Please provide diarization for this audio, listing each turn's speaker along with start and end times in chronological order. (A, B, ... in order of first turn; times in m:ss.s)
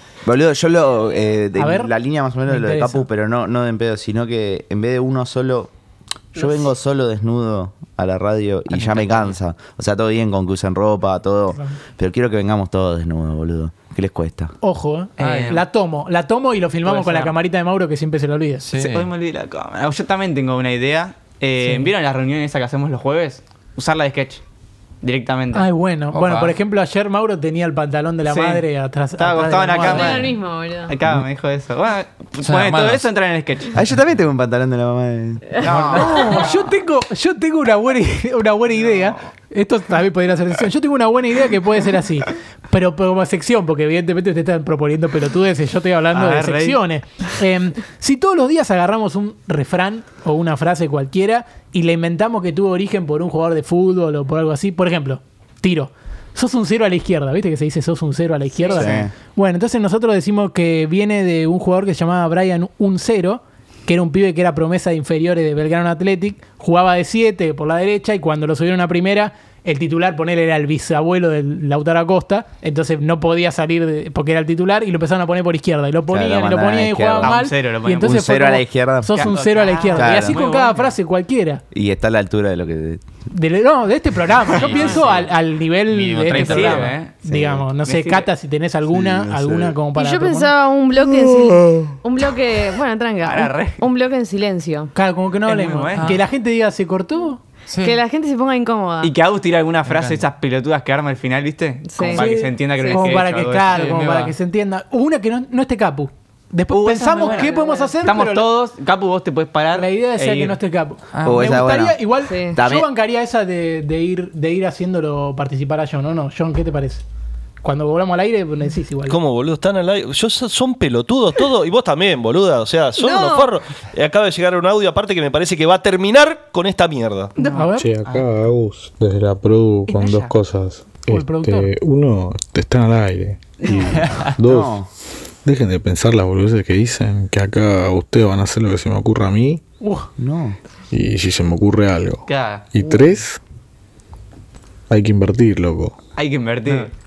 0:00.2-0:05.7 A
0:01.6-0:01.9 B
0:02.4-0:03.0 B
0:06.3-0:14.5 A
0:08.8-0:09.3 C
0:14.6-0:18.6 B
0:15.2-0:15.6 C
0:15.2-0:15.5 D
0:16.8-0:17.3 C
0:18.6-0:19.0 D
0:18.7-0:24.4 C
0:21.6-0:21.9 B
0:25.0-0:25.7 C
0:25.5-0:30.2 B
0:26.1-0:26.6 D
0:28.2-0:28.6 C
0:29.2-0:30.4 C
0:29.7-0:30.9 E
0:30.9-0:33.8 C
0:32.4-0:33.0 D
0:33.7-0:35.6 A
0:35.6-0:36.4 C
0:35.8-1:21.6 B
0:36.1-0:36.4 E
0:46.1-0:46.8 C
0:58.7-0:59.1 A
1:16.1-1:17.4 A
1:17.2-1:18.2 C
1:18.0-1:19.1 A
1:19.1-1:20.9 C
1:19.9-1:20.4 A
1:21.7-1:23.0 A
1:23.3-1:30.5 B
1:24.6-1:25.1 C
1:24.6-1:25.3 D
1:25.9-1:26.9 D
1:26.3-1:27.1 C
1:27.2-1:27.6 A
1:27.8-1:28.3 C
1:28.9-1:29.8 A
1:29.9-1:34.9 E
1:33.2-1:33.8 C
1:34.9-1:37.4 B
1:35.4-1:36.2 C
1:37.7-1:37.9 D
1:37.8-1:39.1 E
1:39.0-1:43.8 C
1:39.8-1:40.2 D
1:41.9-1:43.2 E
1:42.1-1:48.5 B
1:43.7-1:44.3 D
1:46.7-1:50.6 C
1:47.2-1:48.0 E
1:49.7-1:57.0 B
1:51.1-1:51.6 D
1:51.2-1:52.0 A
1:52.2-1:52.6 E
1:52.5-1:52.9 A
1:57.6-1:59.2 B
1:59.1-2:07.3 F
2:03.0-2:03.5 E
2:07.4-2:08.2 C
2:07.5-2:07.9 B
2:07.7-2:14.8 G
2:09.9-2:10.3 C
2:11.1-2:11.7 B
2:14.4-2:14.9 A
2:15.4-2:19.6 G
2:19.8-2:20.1 B
2:20.2-2:20.6 A
2:20.9-2:23.4 G
2:22.3-2:22.6 C
2:24.9-2:25.9 G
2:26.2-2:26.9 C